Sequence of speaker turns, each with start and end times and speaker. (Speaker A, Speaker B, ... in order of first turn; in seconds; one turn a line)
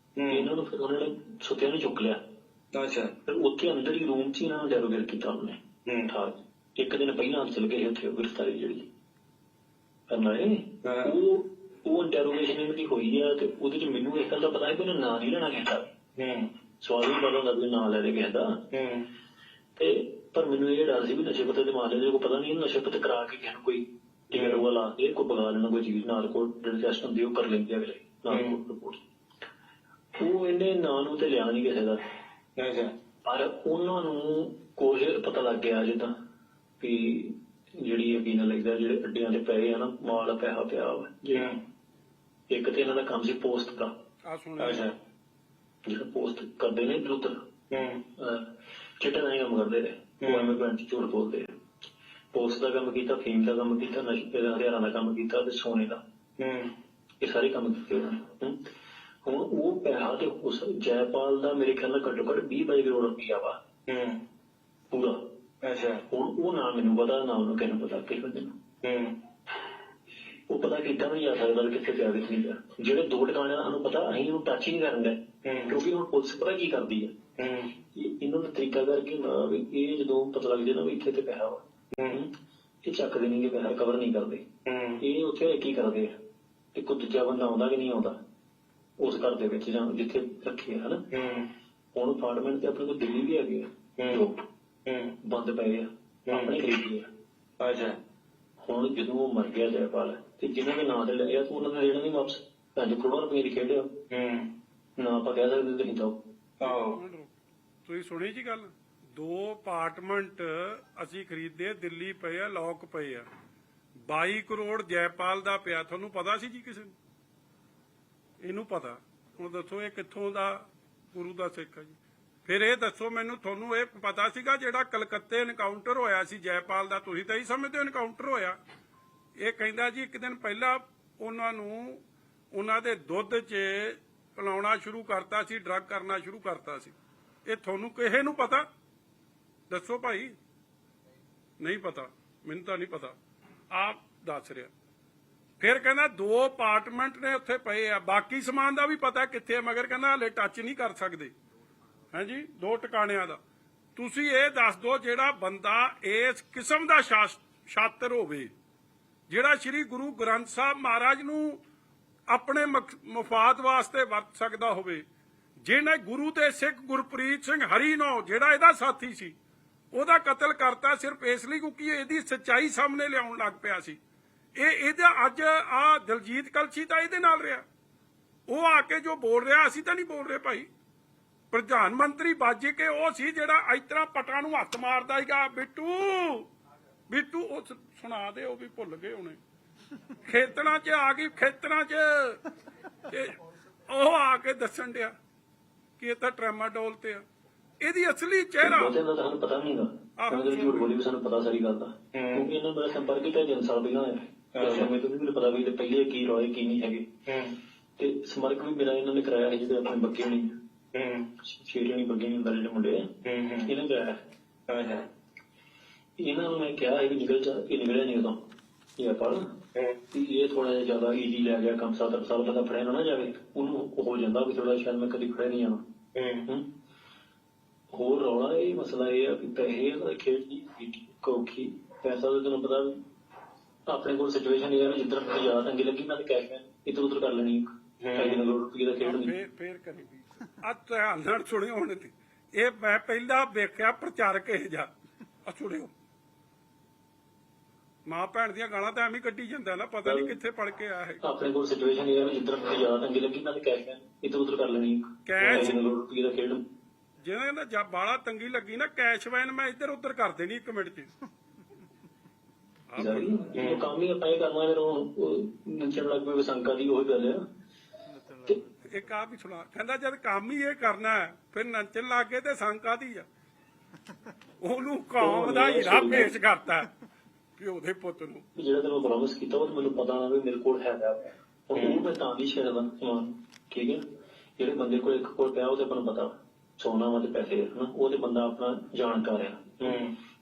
Speaker A: 0.2-0.5
Speaker B: 0.3-2.2
Speaker A: 2.7-3.1
Speaker B: 3.2-8.8
Speaker A: 5.8-6.1
Speaker B: 10.1-15.8
Speaker A: 10.8-11.1
Speaker A: 16.2-16.5
Speaker B: 16.8-18.6
Speaker A: 18.7-19.1
Speaker B: 19.8-29.0
Speaker A: 24.3-24.6
Speaker A: 28.3-28.6
Speaker B: 30.2-32.0
Speaker A: 32.6-32.9
Speaker B: 33.2-36.1
Speaker B: 36.8-41.5
Speaker A: 41.3-41.6
Speaker B: 42.5-43.9
Speaker C: 44.2-44.9
Speaker A: 44.6-44.9
Speaker B: 45.9-47.3
Speaker A: 47.7-48.0
Speaker B: 48.2-48.4
Speaker B: 49.0-51.5
Speaker A: 50.2-50.5
Speaker B: 52.3-56.0
Speaker A: 56.4-56.7
Speaker B: 57.2-58.6
Speaker B: 59.2-63.6
Speaker A: 63.9-64.2
Speaker B: 64.9-65.2
Speaker A: 65.6-66.0
Speaker B: 66.1-68.5
Speaker A: 68.8-69.2
Speaker B: 70.5-77.1
Speaker A: 75.4-75.8
Speaker A: 77.4-77.7
Speaker B: 77.9-82.3
Speaker B: 82.8-84.4
Speaker A: 84.6-85.0
Speaker B: 85.0-86.1
Speaker B: 86.7-88.2
Speaker B: 89.0-91.0
Speaker A: 91.1-91.5
Speaker B: 91.9-94.4
Speaker A: 94.0-94.3
Speaker A: 94.8-95.1
Speaker B: 95.2-97.0
Speaker A: 96.3-96.6
Speaker A: 97.6-98.0
Speaker B: 98.6-103.9
Speaker A: 104.1-104.5
Speaker B: 105.0-106.2
Speaker A: 106.6-107.0
Speaker C: 106.6-113.3
Speaker C: 114.0-116.9
Speaker C: 118.4-128.6
Speaker C: 129.4-136.9
Speaker C: 137.4-138.6
Speaker C: 139.7-140.3
Speaker C: 141.6-143.2
Speaker C: 143.7-144.7
Speaker C: 145.6-151.3
Speaker C: 152.1-153.4
Speaker C: 153.9-158.5
Speaker C: 159.3-161.6
Speaker C: 162.3-165.0
Speaker C: 165.6-169.3
Speaker C: 169.9-174.0
Speaker C: 174.6-177.6
Speaker C: 178.5-180.7
Speaker C: 181.5-186.5
Speaker C: 187.1-189.4
Speaker C: 190.2-192.4
Speaker C: 193.1-195.1
Speaker C: 196.0-197.2
Speaker C: 197.8-198.9
Speaker B: 198.6-207.0
Speaker C: 200.2-200.9
Speaker A: 202.1-202.4
Speaker A: 204.5-204.9
Speaker A: 207.3-207.6
Speaker B: 208.0-210.5
Speaker A: 210.9-211.3
Speaker B: 211.4-213.1
Speaker A: 213.2-213.7
Speaker B: 213.7-214.2
Speaker A: 214.7-215.1
Speaker B: 216.2-218.4
Speaker B: 219.0-219.4
Speaker B: 220.1-225.8
Speaker A: 226.1-226.4
Speaker B: 227.9-233.0
Speaker B: 233.9-239.3
Speaker A: 238.0-238.4
Speaker C: 239.0-240.1
Speaker C: 240.6-244.9
Speaker C: 245.4-245.9
Speaker C: 248.1-251.2
Speaker B: 250.0-250.3
Speaker B: 251.2-256.6
Speaker C: 255.2-255.8
Speaker A: 255.4-255.7
Speaker C: 257.2-261.1
Speaker C: 262.9-263.3
Speaker B: 263.0-267.4
Speaker A: 263.5-263.9
Speaker C: 268.9-273.2
Speaker C: 274.6-276.9
Speaker B: 275.2-276.3
Speaker C: 277.6-278.4
Speaker B: 278.6-284.0
Speaker A: 281.7-282.0
Speaker B: 284.6-290.0
Speaker A: 289.8-290.1